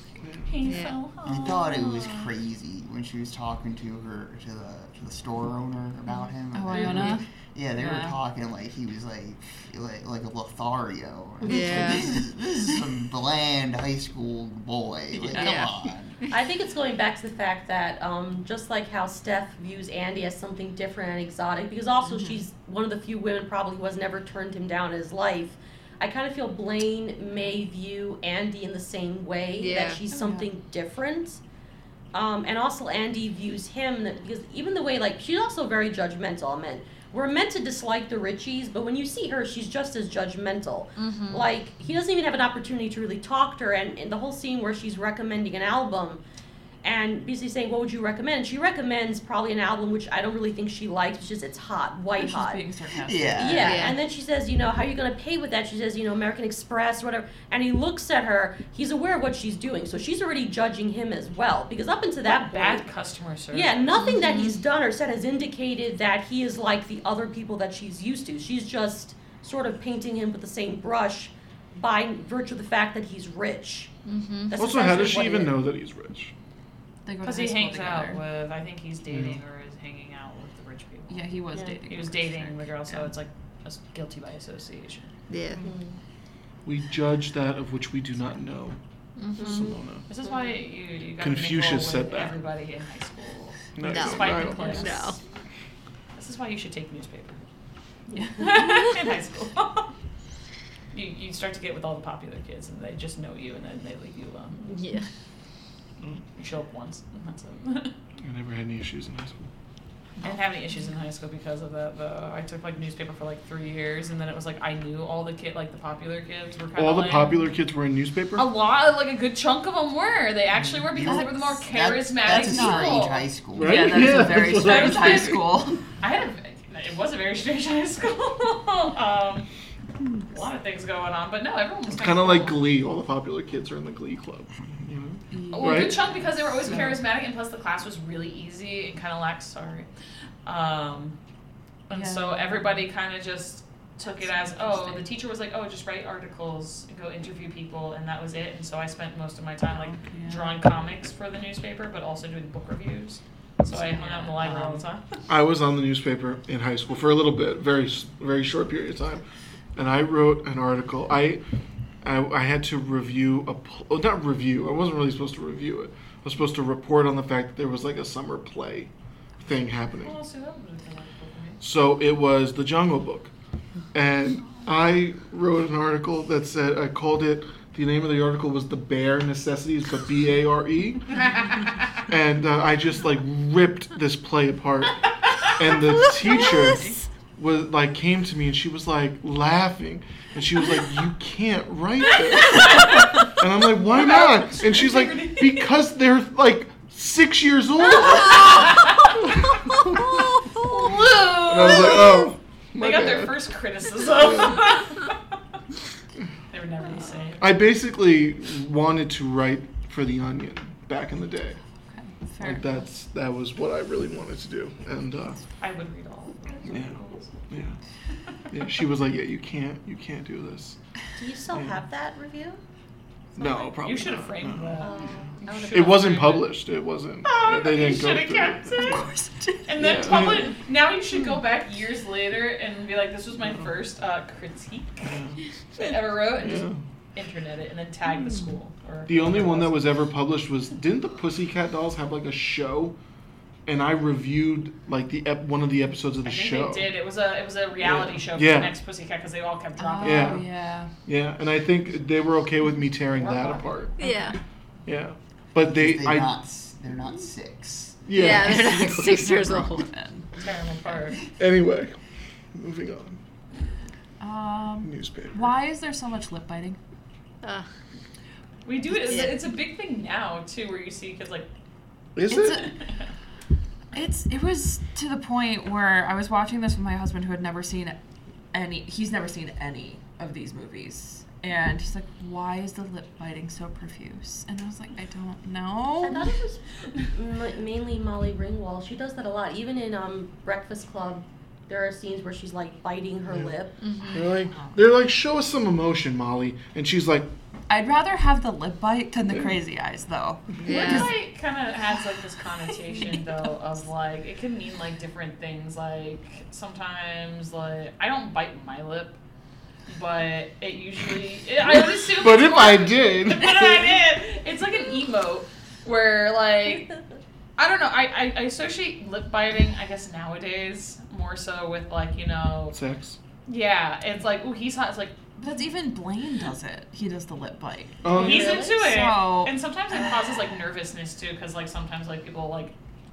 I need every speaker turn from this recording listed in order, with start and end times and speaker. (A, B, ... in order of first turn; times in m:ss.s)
0:00.2-0:00.6 A
0:00.5-0:02.3 B
0:00.6-0:01.0 C
0:01.2-0:16.2 D
0:06.5-0:07.2 E
0:06.8-0:07.2 C
0:07.8-0:08.2 E
0:11.4-0:12.2 C
0:11.5-0:12.7 E
0:15.1-0:15.6 E
0:15.4-0:15.7 C
0:16.3-0:31.4 F
0:22.0-0:22.4 E
0:29.6-0:30.0 C
0:30.1-0:30.5 E
0:32.1-0:46.2 F
0:41.0-0:41.5 C
0:46.8-0:52.6 F
0:52.2-0:53.9 E
0:53.0-0:53.8 D
0:53.4-1:02.8 F
0:53.6-0:54.0 C
1:02.2-1:03.8 B
1:03.5-1:13.9 F
1:04.0-1:04.6 C
1:14.0-1:14.6 C
1:14.5-1:15.6 F
1:14.5-1:16.3 A
1:17.0-1:18.2 E
1:17.2-1:21.3 B
1:19.1-1:19.4 A
1:21.1-1:23.1 E
1:21.9-1:25.1 B
1:25.3-1:25.7 C
1:25.6-1:26.0 F
1:26.6-1:28.8 A
1:29.2-1:29.8 C
1:29.4-1:30.5 F
1:29.4-1:30.0 A
1:30.1-1:35.2 B
1:31.2-1:32.4 A
1:33.8-1:34.9 A
1:33.8-1:35.2 C
1:36.2-1:37.4 B
1:38.1-1:38.9 E
1:38.4-1:39.9 B
1:40.9-1:44.7 B
1:44.6-1:45.1 C
1:46.4-1:47.9 B
1:48.2-1:49.5 A
1:50.2-1:57.3 B
1:56.7-1:58.5 A
1:58.4-2:03.2 B
2:00.6-2:00.9 A
2:00.9-2:04.1 D
2:01.0-2:01.6 E
2:02.2-2:05.8 E
2:03.5-2:05.4 A
2:04.6-2:09.5 B
2:10.3-2:12.6 B
2:11.9-2:16.0 A
2:15.3-2:17.0 E
2:15.5-2:19.9 B
2:20.4-2:21.2 B
2:21.9-2:35.2 B
2:21.9-2:22.8 E
2:24.0-2:25.1 E
2:29.7-2:30.5 E
2:33.6-2:34.9 E
2:35.3-2:39.2 A
2:39.8-2:41.4 A
2:42.0-2:50.2 A
2:50.0-2:51.6 B
2:51.6-2:53.3 A
2:53.9-3:01.2 A
3:02.1-3:05.0 A
3:05.5-3:20.2 A
3:05.8-3:07.0 C
3:06.3-3:06.8 E
3:12.4-3:13.3 B
3:13.9-3:15.7 B
3:17.9-3:19.2 B
3:19.5-3:21.1 C
3:20.6-3:25.2 B
3:21.4-3:23.4 A
3:24.1-3:24.7 A
3:26.5-3:27.4 B
3:27.4-3:31.6 A
3:31.9-3:32.9 E
3:32.4-3:35.4 A
3:35.6-3:37.4 B
3:36.6-3:37.8 A
3:38.5-3:40.8 A
3:41.2-3:42.6 F
3:41.5-3:41.8 A
3:43.4-3:45.1 A
3:43.6-3:46.5 B
3:44.8-3:46.1 F
3:45.7-3:49.1 A
3:47.2-3:49.0 B
3:48.8-3:50.0 E
3:49.6-3:55.1 B
3:49.8-3:50.6 A
3:55.0-3:55.4 A
3:55.8-3:59.8 B
3:56.3-3:56.8 A
3:59.1-4:03.0 A
4:03.6-4:06.9 A
4:06.2-4:10.4 B
4:07.8-4:08.8 A
4:09.8-4:10.9 E
4:10.0-4:10.5 A
4:11.0-4:14.1 A
4:13.1-4:13.9 B
4:14.0-4:14.4 C
4:14.8-4:16.3 A
4:15.6-4:18.0 D
4:18.0-4:19.0 A
4:18.1-4:19.9 C
4:18.2-4:20.3 E
4:20.4-4:21.2 B
4:21.3-4:22.0 A
4:22.5-4:23.2 A
4:24.2-4:26.8 E
4:24.8-4:25.5 A
4:28.6-4:31.5 B
4:29.1-4:29.4 C
4:32.2-4:32.7 A
4:32.3-4:32.7 E
4:32.6-4:33.1 B
4:33.9-4:38.0 E
4:38.5-4:46.3 E
4:46.0-4:53.8 F
4:53.8-4:54.4 C
4:54.1-4:57.3 A
4:54.5-4:54.8 E
4:57.7-5:01.1 E
5:00.6-5:01.1 C
5:00.6-5:09.2 B
5:09.9-5:16.9 B
5:11.7-5:14.0 A
5:16.6-5:17.0 F
5:17.6-5:22.8 B
5:22.7-5:23.2 A
5:23.4-5:25.2 B
5:25.4-5:29.5 E
5:28.0-5:28.6 A
5:28.1-5:32.7 B